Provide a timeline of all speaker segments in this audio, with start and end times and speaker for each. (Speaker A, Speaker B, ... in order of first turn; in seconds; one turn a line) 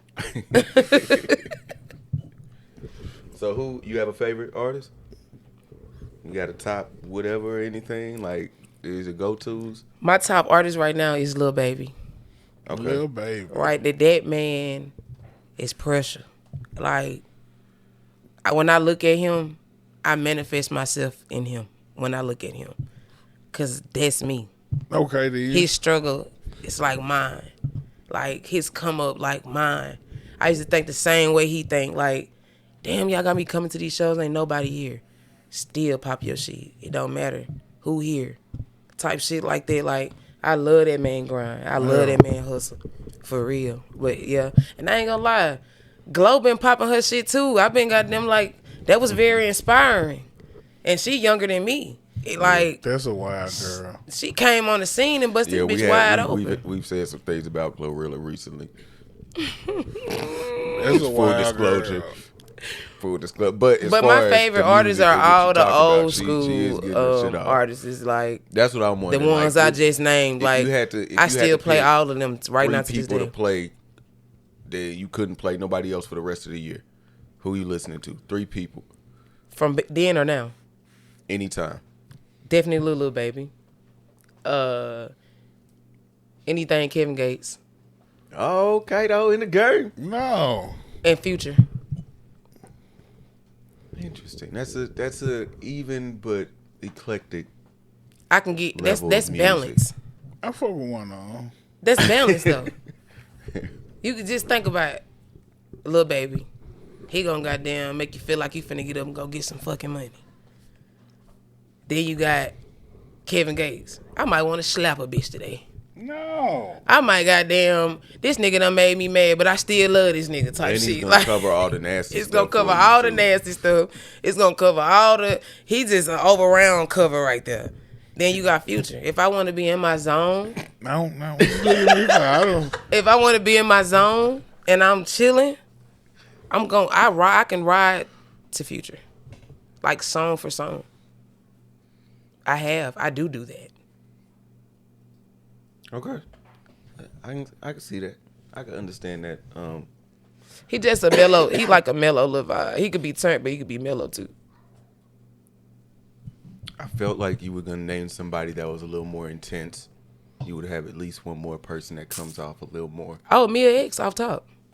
Speaker A: 0.2-1.4
Speaker B: 0.5-1.5
Speaker A: 3.3-4.9
Speaker A: 6.2-9.8
Speaker B: 10.0-11.9
Speaker A: 12.7-13.0
Speaker C: 12.7-13.8
Speaker B: 13.5-14.9
Speaker B: 15.6-16.3
Speaker B: 16.8-17.2
Speaker B: 18.4-22.8
Speaker B: 23.5-24.5
Speaker C: 24.9-25.7
Speaker B: 25.5-27.5
Speaker B: 28.1-32.3
Speaker B: 32.8-38.4
Speaker B: 39.0-50.3
Speaker C: 41.8-42.2
Speaker B: 50.9-52.8
Speaker A: 52.4-52.7
Speaker C: 52.8-54.0
Speaker B: 53.5-56.6
Speaker A: 55.4-58.7
Speaker B: 59.4-61.0
Speaker C: 60.7-62.2
Speaker A: 60.9-62.1
Speaker A: 63.0-67.6
Speaker B: 63.8-68.4
Speaker A: 68.5-69.8
Speaker B: 69.1-73.3
Speaker A: 70.4-71.9
Speaker A: 72.6-73.7
Speaker A: 74.7-76.8
Speaker A: 77.4-78.9
Speaker B: 79.5-80.5
Speaker A: 81.3-81.8
Speaker B: 82.5-83.5
Speaker B: 84.5-85.1
Speaker B: 86.5-87.6
Speaker A: 88.3-89.9
Speaker C: 90.0-90.8
Speaker B: 91.0-91.6
Speaker A: 94.0-97.5
Speaker B: 98.3-99.9
Speaker A: 98.8-99.8
Speaker C: 100.4-101.5
Speaker B: 101.8-102.7
Speaker A: 102.0-102.7
Speaker B: 104.0-105.0
Speaker B: 105.8-106.5
Speaker B: 107.1-110.2
Speaker B: 111.9-112.5
Speaker B: 113.3-115.6
Speaker C: 116.0-116.8
Speaker B: 116.9-121.5
Speaker A: 120.6-123.3
Speaker B: 122.1-130.6
Speaker C: 130.8-132.8
Speaker B: 132.9-135.6
Speaker B: 136.5-139.0
Speaker B: 139.8-140.8
Speaker B: 142.4-143.7
Speaker A: 145.9-146.2
Speaker A: 147.0-149.9
Speaker B: 150.7-154.3
Speaker A: 156.8-159.9
Speaker A: 160.4-163.2
Speaker B: 163.3-164.4